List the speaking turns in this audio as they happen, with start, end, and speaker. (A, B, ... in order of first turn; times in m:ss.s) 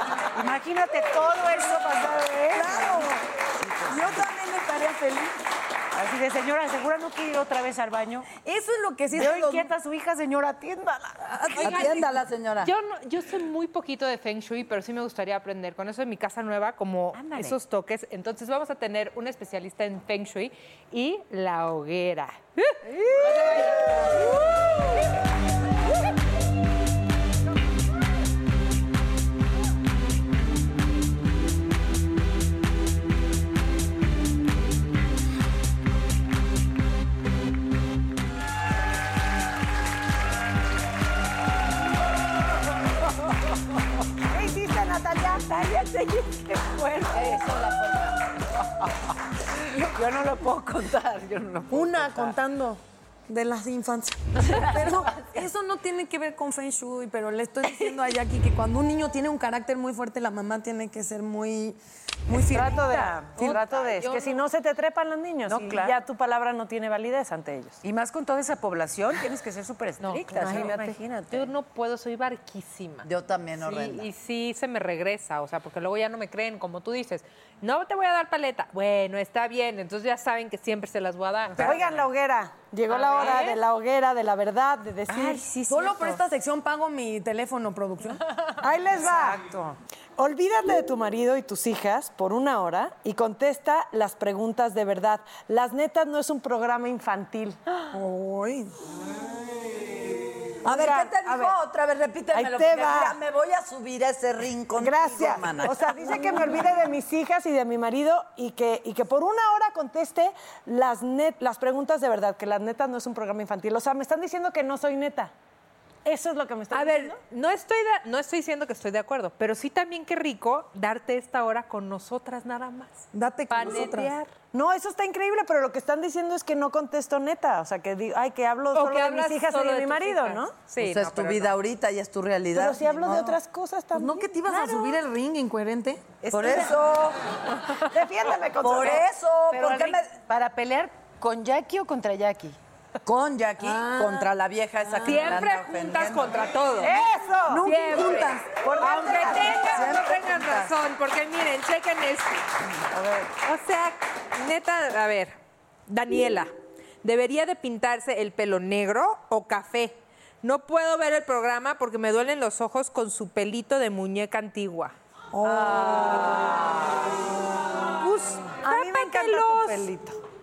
0:00.3-0:03.0 A
0:02.5-0:03.3 B
0:03.6-0:04.2 A
0:03.9-0:05.4 B
0:05.9-0:08.3 A
0:08.4-0:09.7 B
0:09.1-0:11.4 A
0:11.3-0:11.8 B
0:11.6-0:12.1 C
0:11.6-0:12.7 D
0:12.6-0:24.7 C
0:17.1-0:17.6 A
0:44.3-0:45.7 E
0:45.4-0:48.1 A
0:47.3-0:47.8 D
0:49.6-0:52.4 A
0:51.7-1:03.6 B
0:54.4-0:55.3 A
1:02.5-1:07.8 E
1:02.5-1:03.3 A
1:03.8-1:04.4 C
1:05.5-1:06.0 A
1:07.8-1:11.5 A
1:10.0-1:13.1 C
1:10.3-1:10.9 E
1:13.0-1:14.1 D
1:13.6-1:22.0 C
1:21.6-1:25.4 E
1:22.9-1:23.6 C
1:25.1-1:26.2 A
1:25.7-1:28.2 B
1:28.6-1:29.5 E
1:29.0-1:29.8 A
1:30.2-1:37.6 E
1:37.9-1:38.7 B
1:40.6-1:46.3 D
1:40.6-1:41.6 E
1:42.3-1:43.2 E
1:44.8-1:55.3 E
1:56.0-1:57.2 E
1:56.7-2:04.3 C
2:03.1-2:04.1 B
2:04.5-2:10.6 E
2:08.7-2:11.5 C
2:10.8-2:13.4 D
2:12.6-2:14.9 E
2:14.0-2:16.0 B
2:16.3-2:16.7 A
2:16.3-2:17.2 D
2:17.8-2:19.1 E
2:18.6-2:20.1 D
2:19.5-2:22.6 A
2:23.0-2:26.5 D
2:23.6-2:24.3 B
2:25.0-2:27.0 C
2:26.8-2:27.7 E
2:27.5-2:28.6 B
2:27.6-2:32.5 C
2:28.6-2:30.0 E
2:29.7-2:30.6 D
2:32.9-2:33.3 E
2:33.4-2:36.5 C
2:37.0-2:44.9 C
2:45.3-2:46.2 B
2:45.6-2:46.6 A
2:48.0-2:49.9 C
2:48.6-2:50.2 E